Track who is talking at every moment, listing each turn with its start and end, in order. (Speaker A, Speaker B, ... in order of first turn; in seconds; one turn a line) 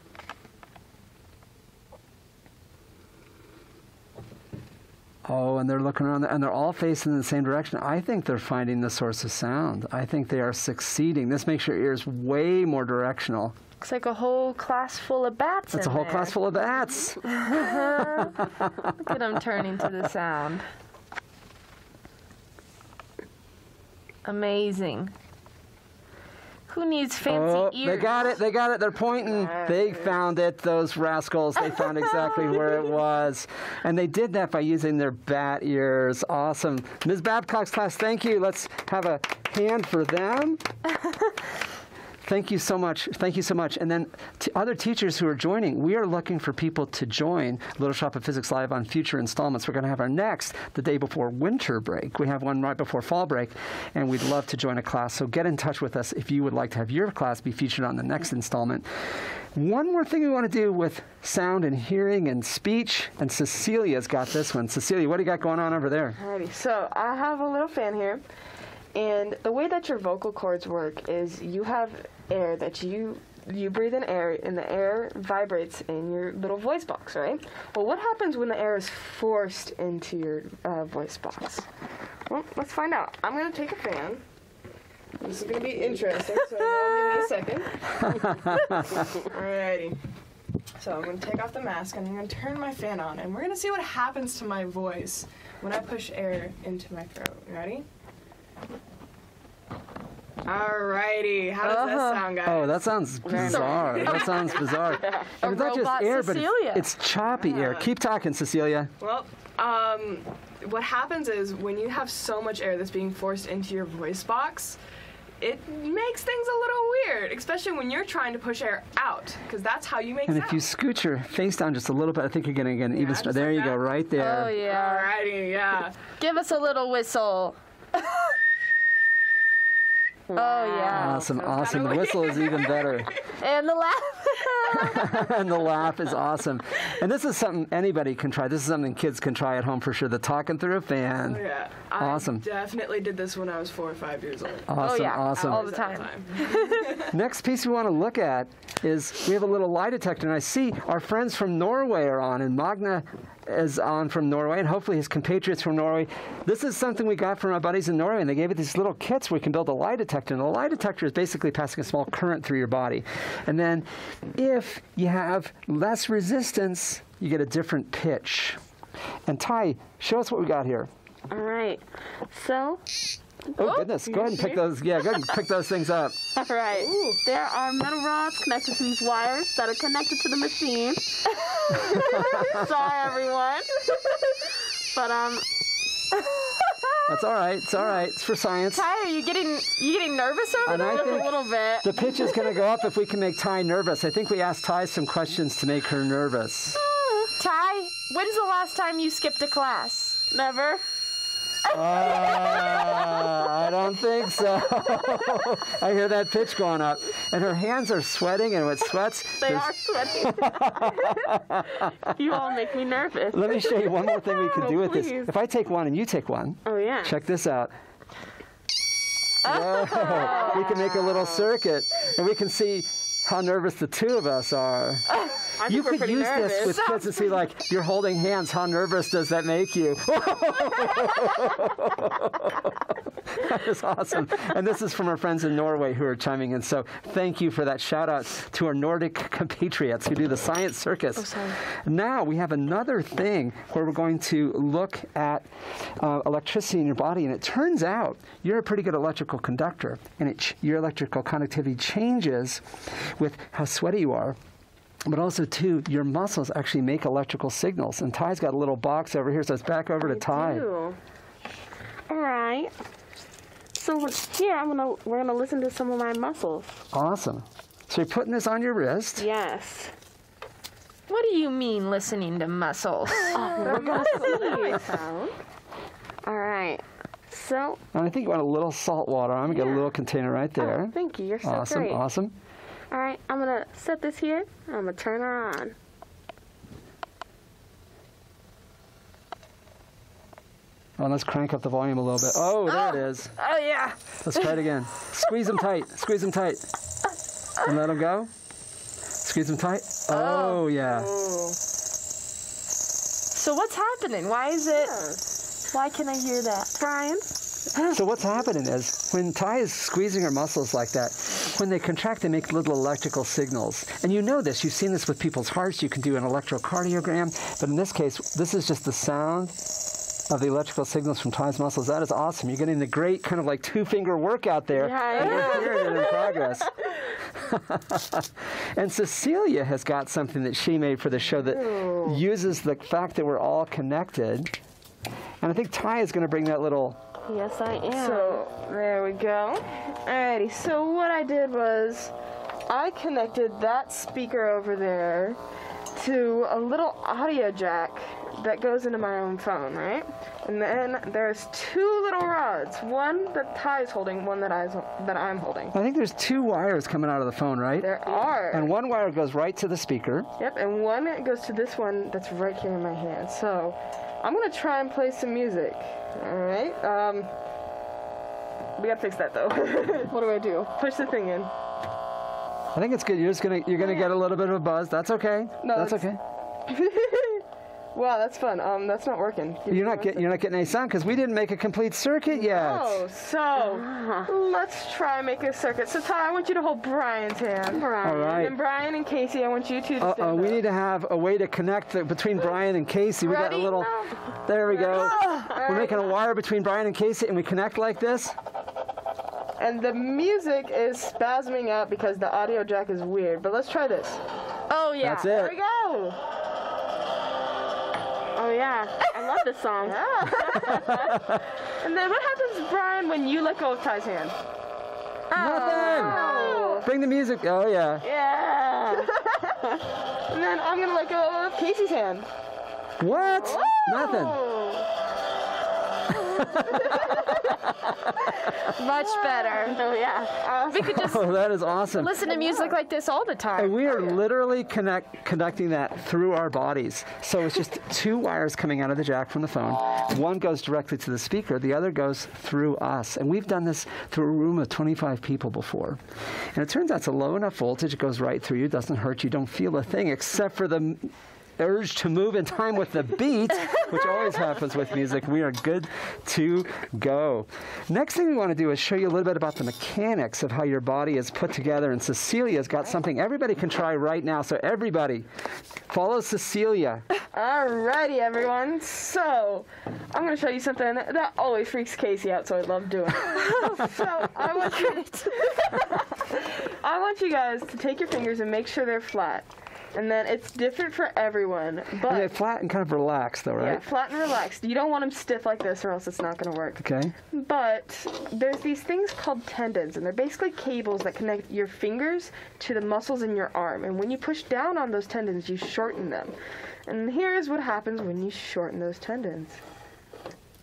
Speaker A: 5.3-13.6
Speaker B: 13.8-16.4
Speaker A: 15.7-17.4
Speaker B: 17.3-20.6
Speaker A: 18.2-18.9
Speaker B: 24.2-25.1
Speaker B: 26.7-28.4
Speaker A: 27.3-40.6
Speaker A: 42.2-58.9
Speaker A: 59.5-66.2
Speaker C: 66.2-68.2
Speaker C: 69.0-81.7
Speaker C: 82.3-84.2
Speaker C: 85.2-88.2
Speaker A: 88.0-89.0
Speaker C: 89.1-90.0
Speaker C: 90.8-97.9
Speaker C: 100.4-102.8
Speaker A: 101.6-108.9
Speaker D: 103.3-103.8
Speaker B: 103.3-106.9
Speaker C: 103.3-104.5
Speaker D: 104.9-105.3
Speaker C: 107.2-107.9
Speaker C: 109.0-114.8
Speaker C: 115.4-120.6
Speaker A: 120.3-124.5
Speaker C: 122.9-123.8
Speaker B: 124.2-125.1
Speaker C: 124.6-126.1
Speaker B: 126.2-128.2
Speaker D: 130.3-131.2
Speaker B: 130.3-131.3
Speaker A: 130.9-133.1
Speaker C: 131.1-133.4
Speaker B: 133.2-135.2
Speaker A: 134.7-141.4
Speaker C: 141.2-144.7
Speaker A: 142.0-142.4
Speaker A: 144.7-145.7
Speaker B: 144.8-147.0
Speaker C: 145.3-147.1
Speaker A: 147.0-168.6
Speaker A: 169.3-170.9
Speaker D: 171.3-172.8
Speaker A: 173.6-176.2
Speaker B: 173.6-173.9
Speaker D: 174.1-174.6
Speaker D: 176.4-185.5
Speaker C: 176.8-177.2
Speaker A: 181.7-182.7
Speaker A: 187.1-188.8
Speaker B: 188.7-191.4
Speaker A: 190.7-196.8
Speaker D: 190.7-192.5
Speaker D: 196.8-197.3
Speaker B: 197.4-200.3
Speaker D: 200.3-200.8
Speaker A: 201.7-212.4
Speaker D: 209.4-211.3
Speaker D: 211.8-215.3
Speaker A: 213.3-217.7
Speaker D: 216.7-217.2
Speaker A: 219.4-225.1
Speaker B: 219.4-220.9
Speaker D: 220.0-221.5
Speaker D: 225.6-226.8
Speaker A: 225.7-254.4
Speaker B: 226.6-227.4
Speaker B: 241.2-241.6
Speaker A: 255.1-260.7
Speaker D: 260.0-261.0
Speaker D: 262.1-262.7
Speaker D: 263.7-266.9
Speaker A: 266.9-269.3
Speaker D: 269.2-269.9
Speaker B: 271.1-274.6
Speaker D: 273.4-275.0
Speaker C: 273.6-275.4
Speaker D: 276.2-277.8
Speaker A: 277.9-282.3
Speaker D: 279.5-279.9
Speaker D: 280.6-282.0
Speaker D: 282.9-285.8
Speaker A: 291.0-293.3
Speaker B: 292.7-294.6
Speaker A: 294.2-296.7
Speaker A: 297.6-298.3
Speaker A: 299.2-301.1
Speaker B: 300.1-300.7
Speaker C: 300.8-301.6
Speaker B: 303.3-305.2
Speaker C: 304.7-305.2
Speaker B: 305.7-306.8
Speaker D: 306.8-307.3
Speaker A: 307.8-319.6
Speaker A: 320.3-326.7
Speaker D: 324.7-326.6
Speaker B: 325.2-325.5
Speaker A: 327.3-334.5
Speaker C: 331.4-332.2
Speaker A: 335.4-337.0
Speaker D: 337.3-338.4
Speaker C: 337.9-342.1
Speaker C: 342.7-345.4
Speaker C: 345.9-355.7
Speaker A: 355.7-357.9
Speaker C: 357.8-358.7
Speaker A: 358.5-360.3
Speaker C: 360.4-367.3
Speaker C: 368.8-370.2
Speaker D: 370.1-370.7
Speaker C: 370.7-371.5
Speaker A: 372.8-376.2
Speaker C: 375.6-376.1
Speaker C: 376.7-380.3
Speaker A: 379.7-383.0
Speaker C: 382.3-390.6
Speaker D: 383.6-384.3
Speaker D: 387.7-388.4
Speaker A: 388.0-388.6
Speaker A: 390.0-398.4
Speaker C: 393.2-396.1
Speaker B: 395.1-395.5
Speaker C: 399.6-404.2
Speaker B: 404.7-405.5
Speaker A: 405.0-405.5
Speaker C: 405.3-406.2
Speaker D: 408.4-411.1
Speaker C: 409.8-411.0
Speaker A: 410.7-411.4
Speaker C: 411.7-414.4
Speaker B: 415.3-416.8
Speaker A: 415.4-418.0
Speaker C: 415.8-416.9
Speaker D: 416.3-416.7
Speaker D: 418.0-419.2
Speaker C: 419.0-419.6
Speaker C: 420.3-422.3
Speaker A: 423.0-424.4
Speaker C: 423.2-424.9
Speaker A: 426.2-427.2
Speaker B: 428.6-429.8
Speaker C: 429.2-429.7
Speaker D: 429.6-430.5
Speaker C: 430.3-431.2
Speaker B: 430.7-431.3
Speaker A: 430.8-432.1
Speaker B: 431.9-434.1
Speaker C: 432.3-432.7
Speaker A: 433.6-446.0
Speaker A: 446.5-465.3
Speaker A: 465.9-467.1
Speaker C: 467.3-482.3
Speaker B: 473.4-474.0
Speaker B: 474.7-475.5
Speaker A: 482.1-483.8
Speaker C: 483.6-499.6
Speaker A: 486.8-487.1